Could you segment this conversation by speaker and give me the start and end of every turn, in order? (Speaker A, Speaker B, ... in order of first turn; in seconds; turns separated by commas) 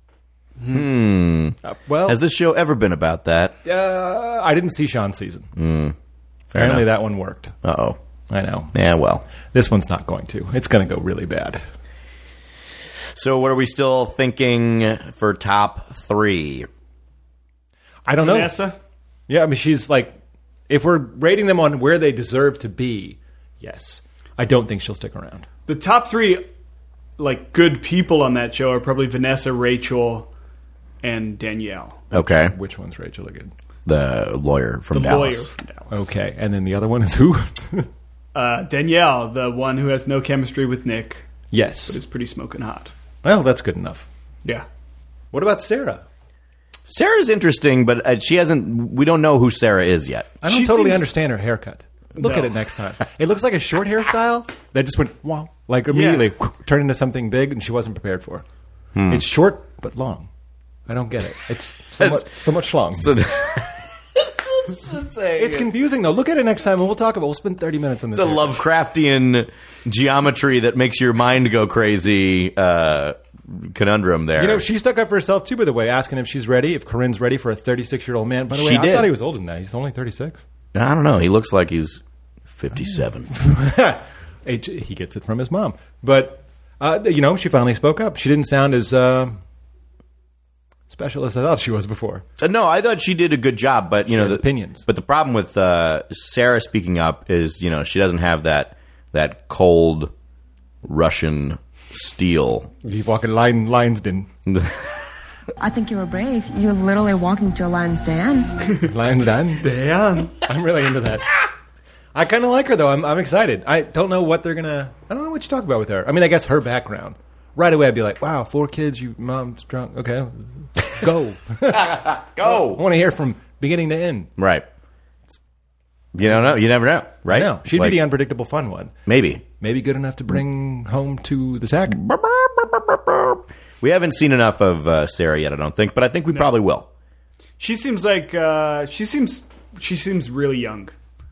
Speaker A: 0.7-3.6, Speaker B: 1.6-2.2, Speaker B: 3.6-5.5, Speaker A: 5.6-6.0, Speaker A: 6.5-6.9, Speaker B: 6.5-7.6, Speaker A: 7.6-8.0, Speaker B: 8.3-8.7, Speaker A: 8.7-9.2, Speaker B: 9.5-11.6, Speaker A: 13.1-16.7, Speaker B: 18.1-18.6, Speaker C: 18.2-18.8, Speaker B: 19.3-20.1, Speaker B: 20.7-25.5, Speaker C: 25.7-26.4, Speaker C: 27.2-30.3, Speaker C: 31.0-32.0, Speaker A: 32.1-32.5, Speaker B: 32.2-33.5, Speaker A: 33.9-35.5, Speaker C: 34.9-35.9, Speaker B: 35.9-37.9, Speaker C: 38.3-41.3, Speaker B: 41.5-42.0, Speaker C: 41.9-42.9, Speaker B: 43.2-44.1, Speaker B: 45.3-46.0, Speaker A: 46.9-50.4, Speaker B: 50.4-58.4, Speaker C: 50.5-51.1, Speaker C: 52.2-52.5, Speaker C: 55.9-56.3, Speaker A: 59.0-59.2, Speaker B: 59.1-60.3, Speaker B: 60.9-63.2, Speaker A: 62.0-62.3, Speaker A: 63.0-65.7, Speaker B: 65.4-68.7, Speaker A: 68.1-74.7, Speaker B: 74.4-80.4, Speaker A: 78.5-79.1, Speaker A: 80.7-83.3, Speaker B: 83.3-89.4, Speaker B: 90.9-92.2, Speaker A: 92.4-100.1, Speaker B: 94.1-94.8, Speaker A: 100.8-102.7, Speaker B: 102.8-104.3, Speaker A: 104.5-105.0, Speaker D: 105.6-108.8, Speaker B: 108.8-109.7, Speaker C: 109.6-110.4, Speaker B: 110.4-111.3, Speaker B: 112.2-124.3, Speaker A: 121.7-122.8, Speaker A: 124.4-124.7, Speaker A: 126.1-128.0, Speaker B: 126.2-126.5, Speaker B: 127.2-128.9, Speaker A: 129.1-129.4, Speaker B: 129.6-132.0, Speaker A: 131.9-136.9, Speaker C: 136.3-136.6, Speaker C: 137.6-140.9